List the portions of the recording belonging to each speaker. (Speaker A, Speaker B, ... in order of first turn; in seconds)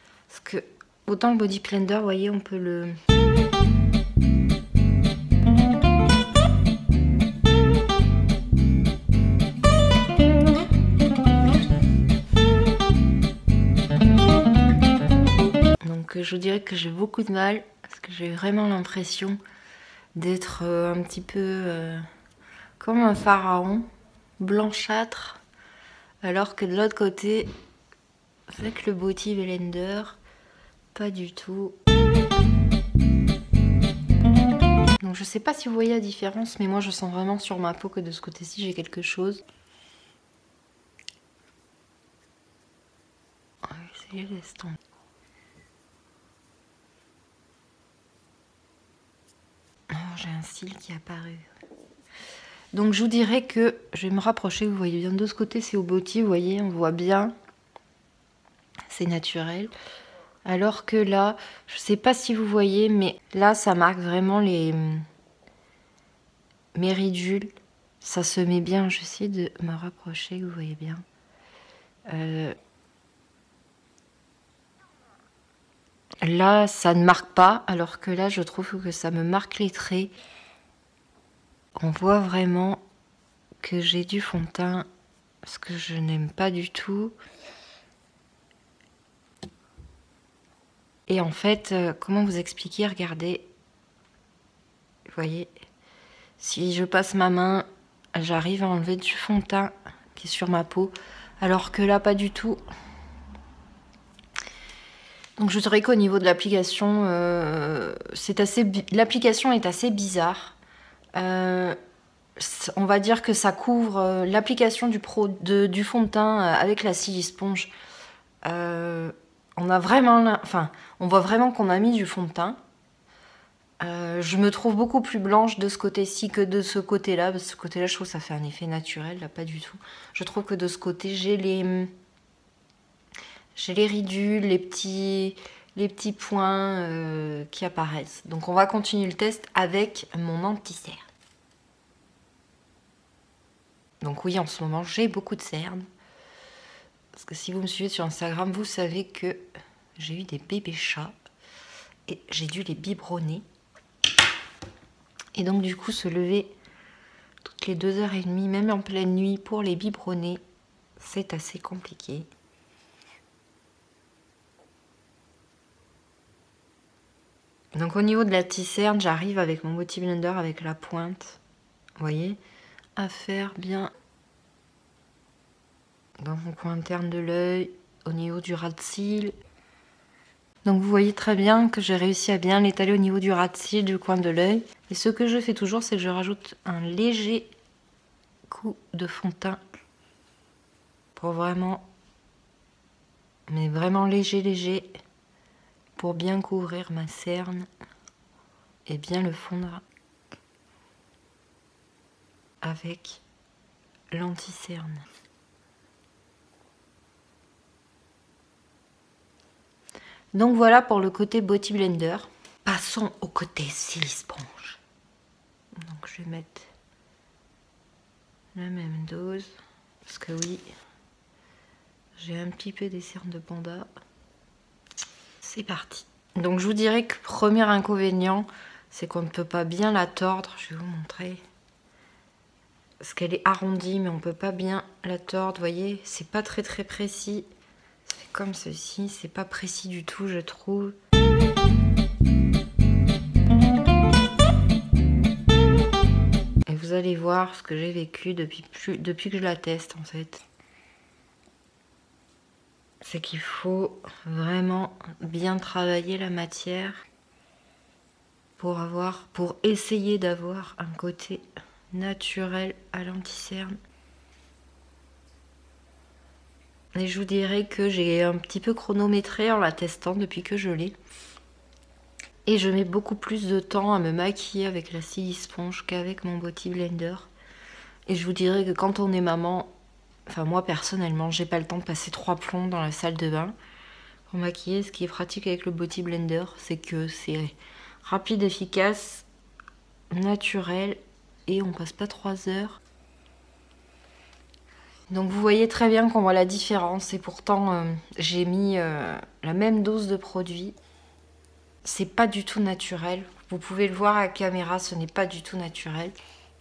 Speaker A: 0.3-3.0, 15.8-19.4, 20.1-22.1, 22.8-23.9, 24.4-25.4, 26.2-27.5, 28.5-30.2, 30.9-31.8, 35.0-39.4, 43.6-44.8, 49.9-51.5, 52.7-57.3, 58.9-59.7, 60.4-65.0, 66.7-71.0, 72.1-72.5, 76.2-80.1, 81.8-82.8, 83.6-84.9, 85.4-87.1, 91.1-93.5, 95.1-95.5, 96.4-102.6, 105.4-110.5, 111.1-111.8, 112.4-117.7, 118.4-122.6, 123.8-131.9, 133.5-141.0, 144.0-145.8, 147.1-149.4, 150.0-151.1, 152.1-153.4, 155.3-156.5, 157.4-160.4, 161.0-162.3, 167.7-171.4, 172.0-172.4, 172.9-173.9, 176.2-179.3, 180.6-187.5, 188.5-189.6, 191.1-191.9, 193.5-194.9, 196.0-197.7, 198.8-199.8, 202.6-203.2, 204.1-205.1, 210.3-214.8, 215.8-216.7, 218.5-219.5, 220.0-220.6, 222.2-223.9, 225.4-231.4, 233.0-237.5, 238.0-240.9, 246.7-250.4, 253.0-257.0, 258.6-263.7, 266.9-270.9, 272.4-277.3, 278.1-279.7, 280.3-283.5, 284.3-289.2, 290.1-292.8, 295.1-300.7, 301.8-306.2